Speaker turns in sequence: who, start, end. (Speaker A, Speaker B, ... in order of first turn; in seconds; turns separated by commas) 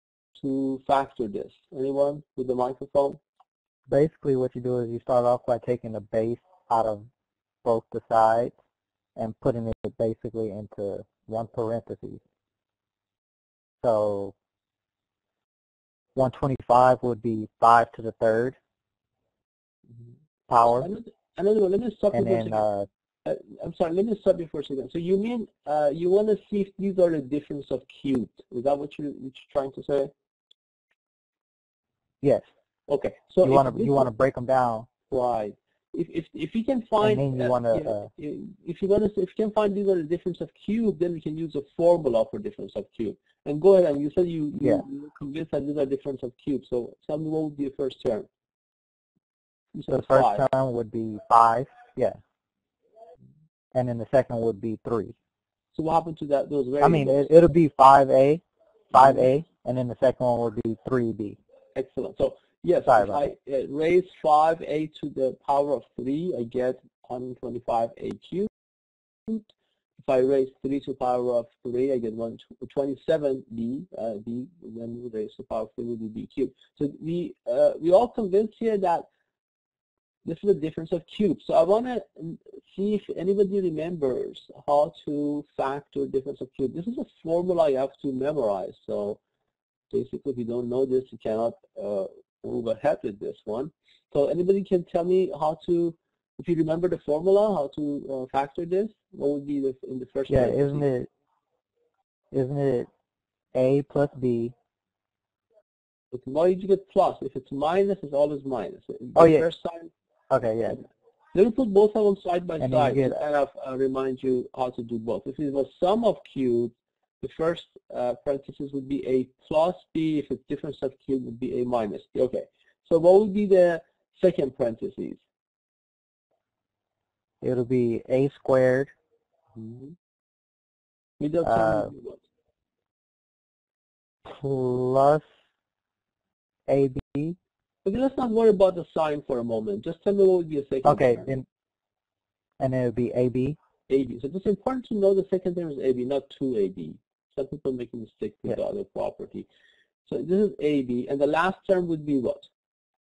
Speaker A: 0.3-3.2, Speaker B: 3.9-7.1, Speaker B: 7.6-8.5, Speaker B: 9.2-12.2, Speaker B: 13.8-14.3, Speaker B: 16.1-18.6, Speaker B: 20.5-20.9, Speaker A: 20.8-22.6, Speaker B: 22.1-22.9, Speaker A: 23.2-30.1, Speaker A: 32.9-34.1, Speaker B: 33.4-34.9, Speaker A: 35.1-48.3, Speaker B: 37.0-38.1, Speaker A: 49.7-50.4, Speaker B: 49.9-52.2, Speaker B: 53.7-55.1, Speaker A: 55.7-57.3, Speaker B: 56.8-61.4, Speaker A: 59.0-59.2, Speaker A: 61.7-68.5, Speaker B: 62.9-63.3, Speaker A: 69.3-79.1, Speaker A: 80.2-89.2, Speaker A: 89.9-100.8, Speaker B: 100.3-101.1, Speaker B: 102.3-102.9, Speaker B: 103.5-104.5, Speaker A: 106.1-109.9, Speaker B: 109.2-109.5, Speaker B: 110.3-110.8, Speaker A: 111.3-125.2, Speaker B: 112.6-113.2, Speaker B: 127.4-128.9, Speaker A: 129.5-129.9, Speaker A: 131.2-132.2, Speaker B: 131.4-131.9, Speaker B: 134.3-135.2, Speaker B: 136.7-137.4, Speaker A: 137.8-141.4, Speaker B: 140.8-141.4, Speaker B: 142.6-143.6, Speaker A: 143.9-149.5, Speaker A: 150.0-152.5